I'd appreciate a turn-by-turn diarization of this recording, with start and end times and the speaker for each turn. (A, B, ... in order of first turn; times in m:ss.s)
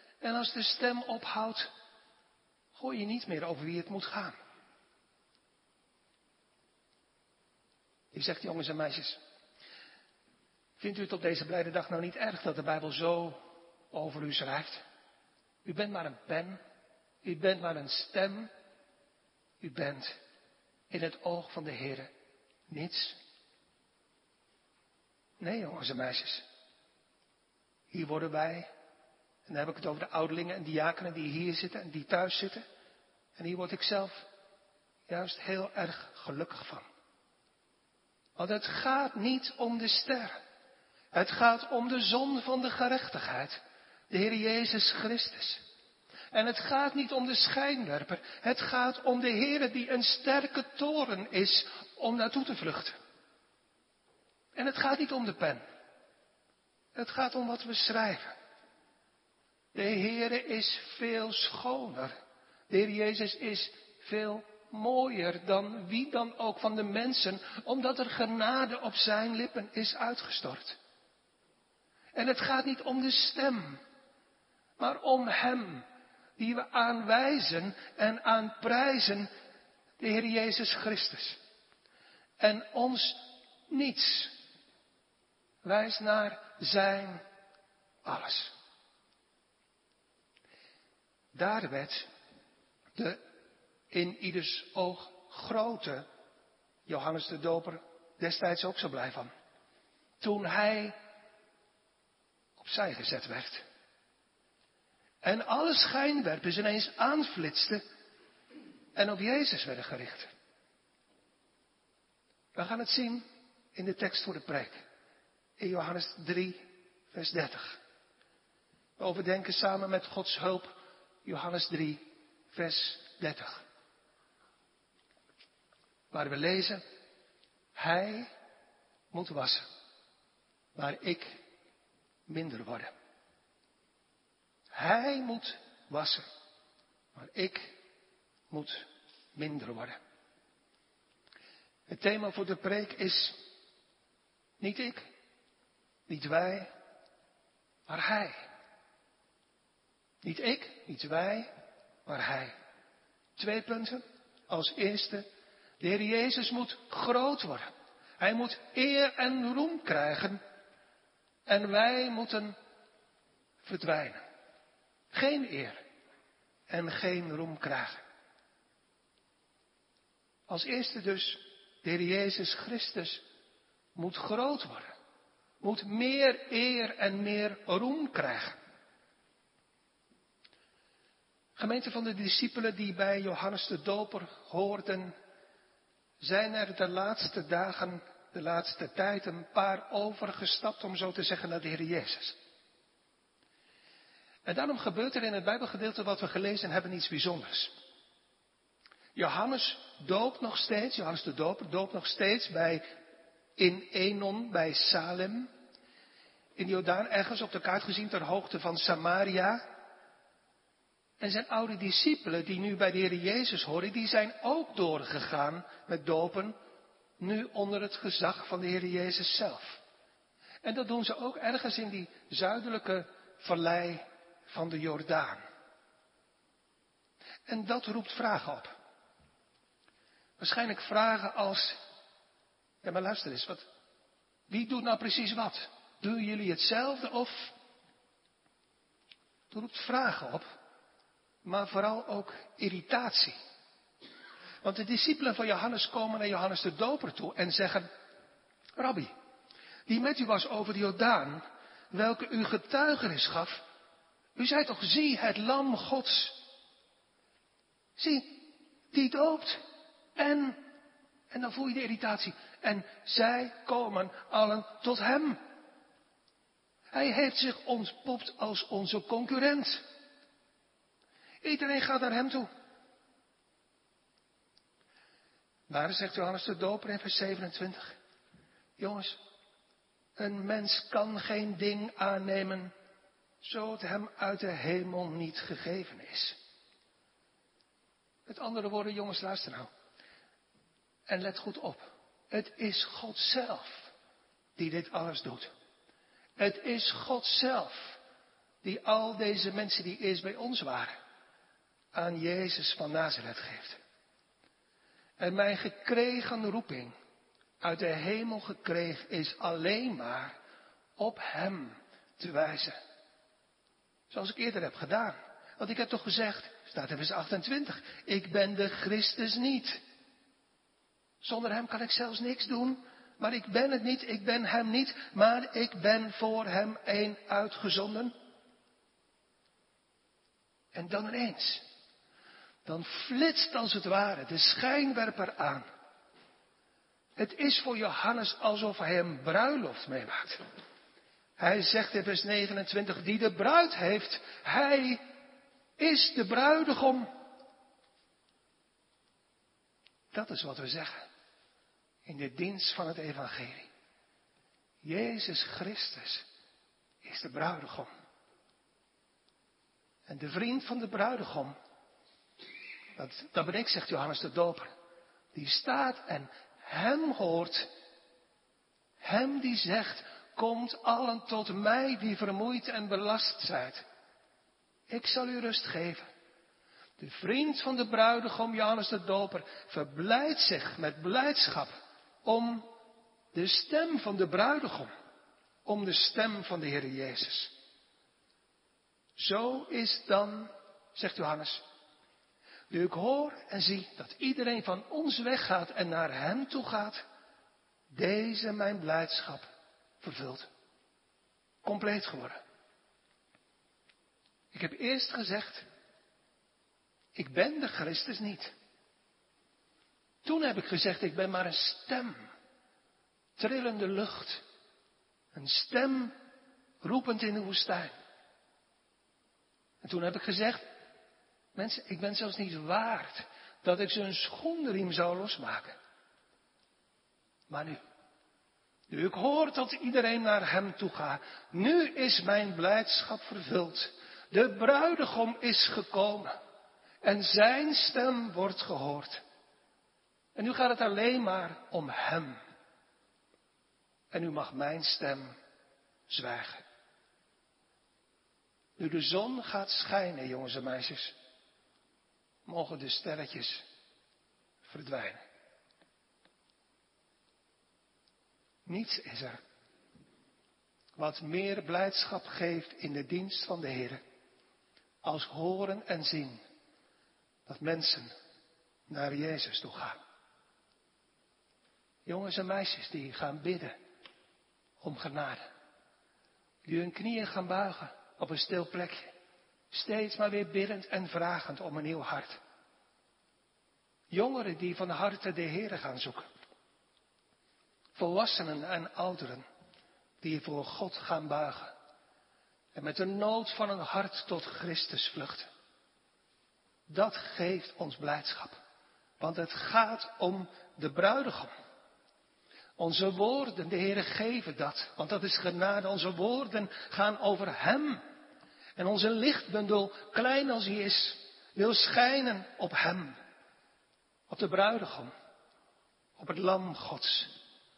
0:00.2-0:01.7 A
0:02.8-0:04.4 A
0:08.1-0:09.2 A
0:10.8-0:14.8 A
0:15.6-0:16.6 A
0:17.2-0:18.5 A
0:19.6-0:20.2 A
0:20.9-0:22.1 A
0:22.7-0:23.2 A
0:25.4-0:26.5 A
0:27.9-0:28.7 A
0:29.5-0:32.6 A
0:33.4-0:34.3 A
0:35.1-0:36.9 A
0:38.4-0:40.4 A
0:41.1-0:43.6 A
0:44.1-0:45.6 A
0:46.3-0:53.0 A
0:54.6-0:55.6 A
0:57.0-0:58.4 A
0:59.7-1:02.2 A
1:02.7-1:10.8 A
1:12.1-1:13.8 A
1:14.8-1:15.9 A
1:16.4-1:19.3 A
1:20.0-1:21.4 A
1:22.4-1:24.4 A
1:25.6-1:27.2 A
1:28.0-1:28.5 A
1:31.3-1:32.1 A
1:33.0-1:33.2 A
1:33.9-1:36.1 A
1:36.9-1:39.3 A
1:40.2-1:41.0 A
1:42.6-1:43.6 A
1:45.2-1:47.8 A
1:49.0-1:50.3 A
1:52.6-1:54.8 A
1:55.6-1:57.8 A
1:59.0-2:03.6 A
2:06.1-2:06.8 A
2:07.8-2:08.3 A
2:09.1-2:09.7 A
2:10.8-2:11.4 A
2:12.3-2:12.9 A
2:14.7-2:16.2 A
2:17.2-2:17.8 A
2:18.5-2:20.0 A
2:21.9-2:23.4 A
2:24.6-2:25.1 A
2:26.1-2:26.7 A
2:27.9-2:28.4 A
2:30.2-2:31.5 A
2:32.1-2:32.6 A
2:33.4-2:35.3 A
2:35.8-2:40.4 A
2:41.5-2:42.6 A
2:43.6-2:44.2 A
2:45.1-2:45.8 A
2:46.7-2:48.0 A
2:50.5-2:53.2 A
2:54.0-2:55.0 A
2:55.6-2:58.6 A
3:01.6-3:05.2 A
3:06.2-3:12.4 A
3:14.4-3:17.7 A
3:19.2-3:22.8 A
3:23.6-3:25.5 A
3:26.6-3:29.6 A
3:31.2-3:36.6 A
3:37.2-3:39.8 A
3:40.6-3:45.4 A
3:47.5-3:48.8 A
3:50.4-3:51.8 A
3:52.8-3:53.7 A
3:54.5-3:57.5 A
3:59.5-4:00.5 A
4:01.4-4:03.4 A
4:04.6-4:07.9 A
4:08.8-4:09.1 A
4:09.9-4:13.6 A
4:14.4-4:16.4 A
4:18.0-4:19.6 A
4:20.2-4:20.6 A
4:21.3-4:25.4 A
4:26.9-4:29.8 A
4:31.4-4:32.5 A
4:35.7-4:38.0 A
4:38.8-4:39.2 A
4:40.2-4:42.7 A
4:43.4-4:46.4 A
4:48.3-4:49.7 A
4:51.1-4:53.9 A
4:54.6-4:55.5 A
4:56.4-4:58.0 A
4:58.6-5:01.0 A
5:01.9-5:03.8 A
5:05.2-5:07.0 A
5:07.6-5:10.4 A
5:11.0-5:12.8 A
5:14.1-5:19.8 A
5:21.2-5:28.1 A
5:30.7-5:31.6 A
5:32.6-5:35.7 A
5:37.2-5:40.4 A
5:41.4-5:45.0 A
5:45.8-5:47.1 A
5:50.1-5:51.1 A
5:52.1-5:53.7 A
5:54.8-5:56.3 A
5:57.0-5:57.9 A
6:00.1-6:01.6 A
6:03.0-6:04.7 A
6:05.3-6:07.7 A
6:09.0-6:13.8 A
6:14.9-6:16.1 A
6:17.0-6:21.7 A
6:22.2-6:22.7 A
6:23.3-6:24.9 A
6:25.6-6:27.5 A
6:29.2-6:31.6 A
6:32.7-6:37.0 A
6:37.9-6:39.5 A
6:40.0-6:40.5 A
6:41.6-6:42.4 A
6:44.5-6:45.7 A
6:47.2-6:48.5 A
6:50.2-6:52.2 A
6:53.4-6:54.4 A
6:55.3-6:56.1 A
6:56.8-6:57.9 A
6:59.8-7:00.7 A
7:01.6-7:05.8 A
7:07.5-7:07.8 A
7:08.9-7:16.3 A
7:17.0-7:19.2 A
7:20.4-7:22.4 A
7:24.1-7:25.4 A
7:26.1-7:26.6 A
7:28.8-7:31.2 A
7:32.5-7:33.6 A
7:34.6-7:35.2 A
7:38.7-7:39.4 A
7:41.0-7:44.0 A
7:45.0-7:46.4 A
7:47.5-7:48.1 A
7:48.9-7:50.0 A
7:52.1-7:53.8 A
7:54.8-7:55.4 A
7:56.6-7:59.1 A
7:59.7-8:02.4 A
8:04.1-8:06.3 A
8:08.0-8:09.4 A
8:10.2-8:11.8 A
8:12.8-8:15.5 A
8:16.9-8:18.6 A
8:19.2-8:21.5 A
8:22.8-8:28.0 A
8:28.8-8:33.2 A
8:34.3-8:35.1 A
8:36.2-8:37.4 A